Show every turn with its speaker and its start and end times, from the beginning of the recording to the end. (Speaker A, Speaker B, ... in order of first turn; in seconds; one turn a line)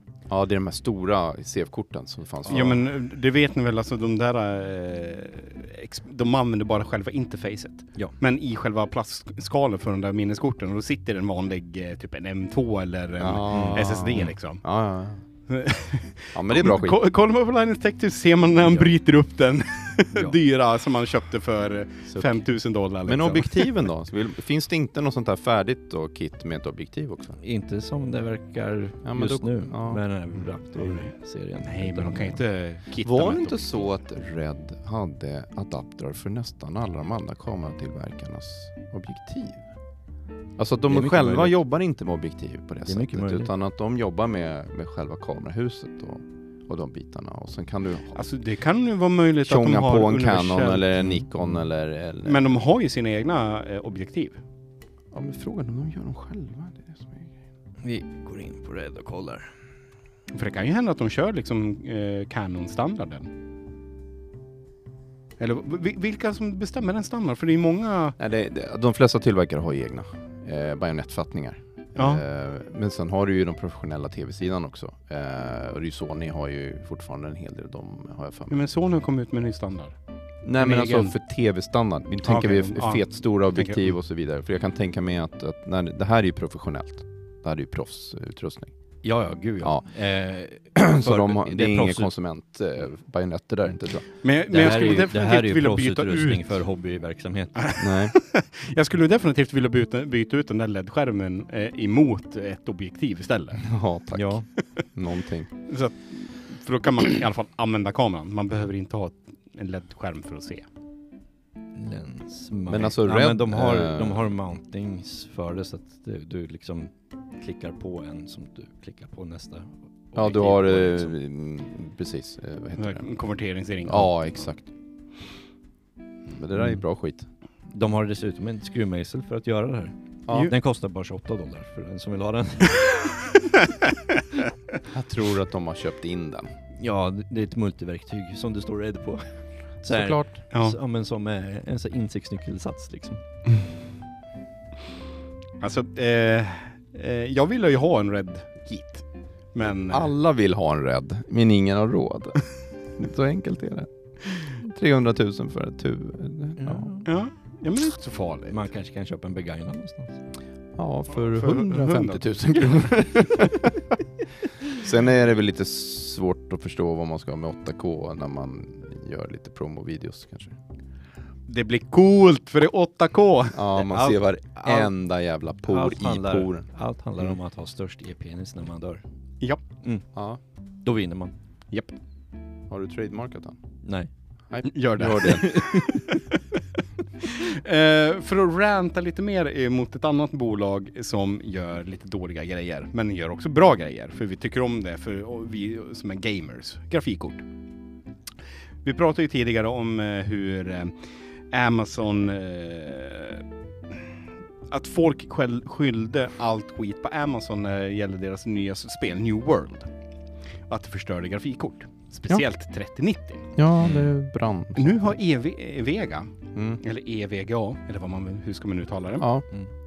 Speaker A: 0.3-2.9
Speaker B: 2.5-14.6
Speaker A: 13.2-15.2
Speaker C: 13.5-13.8
Speaker B: 15.5-23.8
Speaker A: 16.3-17.0
Speaker A: 23.1-27.4
Speaker C: 27.4-32.4
Speaker A: 29.1-30.0
Speaker B: 30.8-31.1
Speaker B: 31.6-33.9
Speaker A: 33.0-39.7
Speaker A: 40.6-48.2
Speaker C: 40.9-41.6
Speaker C: 42.9-43.5
Speaker B: 48.1-50.9
Speaker A: 49.5-52.4
Speaker C: 51.0-51.3
Speaker B: 52.2-54.4
Speaker A: 55.1-57.3
Speaker C: 57.8-59.5
Speaker B: 60.3-63.3
Speaker B: 65.4-68.2
Speaker A: 68.2-78.5
Speaker B: 72.0-72.2
Speaker B: 78.5-80.0
Speaker A: 80.4-88.7
Speaker B: 80.6-81.1
Speaker B: 82.2-83.8
Speaker C: 89.0-92.1
Speaker A: 89.6-89.9
Speaker A: 90.7-94.1
Speaker B: 94.2-96.5
Speaker C: 94.5-97.6
Speaker B: 97.6-103.7
Speaker A: 97.8-98.1
Speaker A: 103.6-104.4
Speaker C: 104.1-104.5
Speaker A: 104.9-105.5
Speaker B: 105.7-110.7
Speaker C: 111.7-121.1
Speaker A: 112.7-114.2
Speaker A: 120.1-123.1
Speaker B: 122.8-124.2
Speaker A: 123.8-124.7
Speaker A: 126.3-127.3
Speaker C: 126.6-126.8
Speaker C: 127.7-133.2
Speaker A: 130.3-130.5
Speaker A: 134.9-136.5
Speaker C: 136.8-139.3
Speaker C: 139.8-143.2
Speaker A: 139.9-140.3
Speaker B: 140.5-140.8
Speaker B: 145.6-150.1
Speaker A: 149.9-152.4
Speaker A: 152.9-156.9
Speaker C: 156.6-157.1
Speaker B: 157.1-158.7
Speaker C: 158.5-160.2
Speaker A: 160.8-163.9
Speaker B: 161.3-162.8
Speaker A: 164.7-170.6
Speaker B: 171.5-173.6
Speaker A: 173.5-176.7
Speaker C: 173.7-174.9
Speaker C: 175.7-179.0
Speaker C: 179.8-180.1
Speaker A: 180.1-180.4
Speaker C: 180.8-181.3
Speaker A: 182.7-183.6
Speaker C: 183.8-184.1
Speaker A: 184.5-185.5
Speaker B: 184.6-186.4
Speaker C: 185.2-186.1
Speaker B: 187.2-197.4
Speaker B: 198.8-204.0
Speaker B: 204.7-209.9
Speaker B: 210.7-213.6
Speaker A: 213.6-215.0
Speaker C: 213.8-214.1
Speaker B: 214.8-219.3
Speaker A: 216.6-216.8
Speaker A: 219.2-219.4